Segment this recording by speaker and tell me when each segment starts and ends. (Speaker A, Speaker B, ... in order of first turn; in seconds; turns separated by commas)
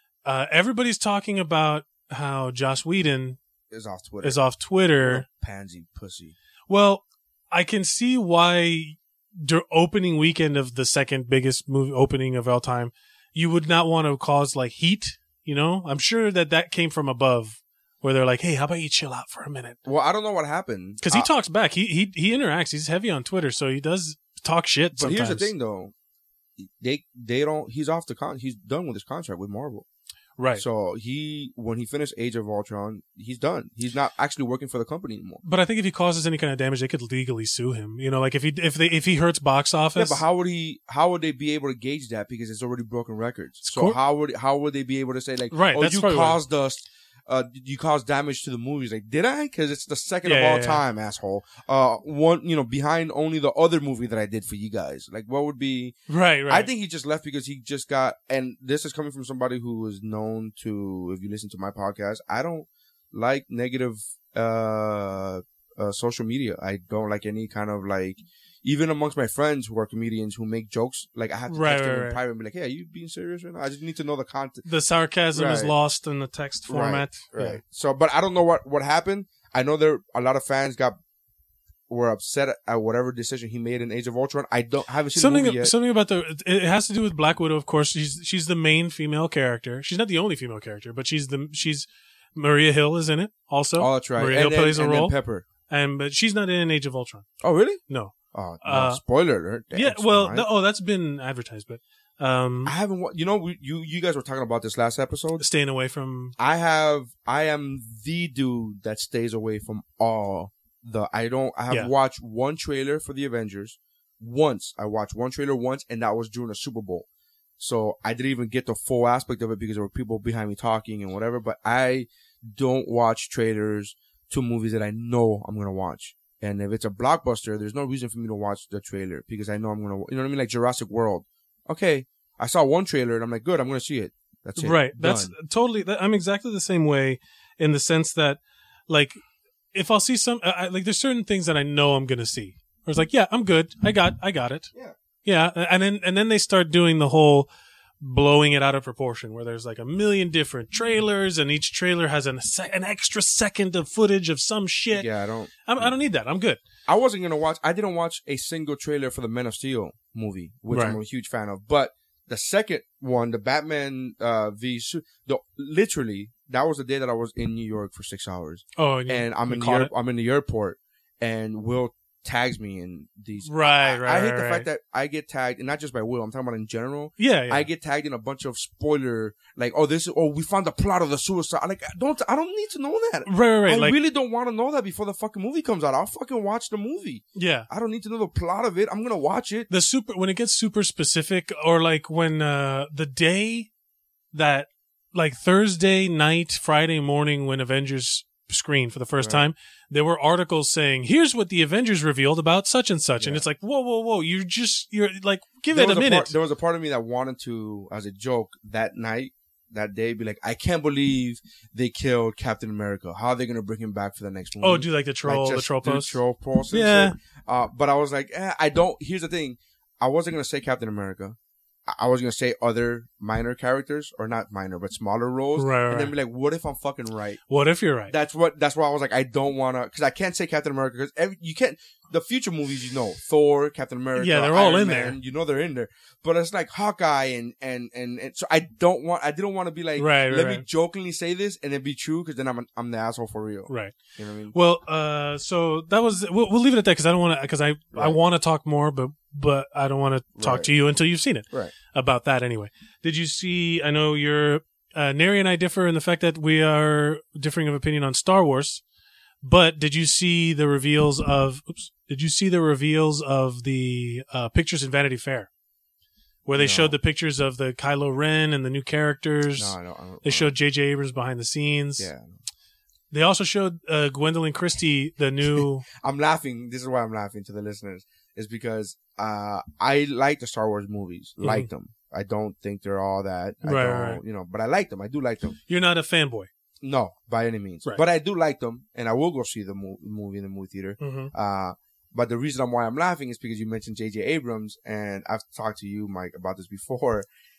Speaker A: 0.2-3.4, Speaker B: 3.7-4.4, Speaker A: 4.2-5.3, Speaker B: 5.0-6.3, Speaker A: 6.7-19.8, Speaker B: 19.9-21.3, Speaker A: 21.0-25.5, Speaker B: 24.9-25.9, Speaker B: 26.6-29.9, Speaker A: 30.4-30.6, Speaker B: 30.6-35.4, Speaker A: 35.4-40.2, Speaker B: 40.0-56.0, Speaker A: 43.6-44.0, Speaker A: 45.5-46.4, Speaker A: 50.2-50.8, Speaker A: 56.1-56.7, Speaker B: 56.5-74.7, Speaker A: 71.5-72.2, Speaker A: 74.7-77.6, Speaker B: 75.3-75.7, Speaker B: 76.7-81.0, Speaker B: 81.9-85.7, Speaker A: 85.2-95.2, Speaker B: 93.8-95.5, Speaker A: 95.7-97.3, Speaker B: 97.4-97.8, Speaker A: 97.9-99.0, Speaker B: 98.3-100.5, Speaker A: 99.7-102.7, Speaker B: 102.7-105.4, Speaker A: 105.4-106.3, Speaker B: 106.4-117.1, Speaker B: 117.6-135.3, Speaker A: 134.6-139.2, Speaker A: 139.7-144.7, Speaker A: 145.2-147.5, Speaker A: 148.0-155.1, Speaker B: 154.9-155.9, Speaker A: 155.6-156.6, Speaker B: 156.9-189.7, Speaker A: 160.7-161.0, Speaker A: 168.8-169.9, Speaker A: 173.4-174.7, Speaker A: 177.2-177.7, Speaker A: 183.3-184.0, Speaker A: 187.3-187.7, Speaker A: 189.7-193.7, Speaker A: 194.3-206.3, Speaker B: 199.2-199.5, Speaker B: 205.7-227.4, Speaker A: 214.6-217.2, Speaker A: 225.6-226.1, Speaker A: 227.5-228.1, Speaker B: 228.1-244.6, Speaker A: 234.2-235.2, Speaker A: 240.0-240.7, Speaker A: 243.7-244.0, Speaker A: 244.5-258.8, Speaker B: 250.4-250.7, Speaker A: 259.4-265.5, Speaker A: 266.5-272.1, Speaker B: 266.6-267.0, Speaker B: 269.6-270.5, Speaker B: 272.0-272.4, Speaker A: 273.1-275.9, Speaker B: 275.6-285.6, Speaker A: 281.4-281.7, Speaker A: 283.6-284.2, Speaker A: 285.7-286.5, Speaker B: 286.8-297.3, Speaker A: 291.0-291.3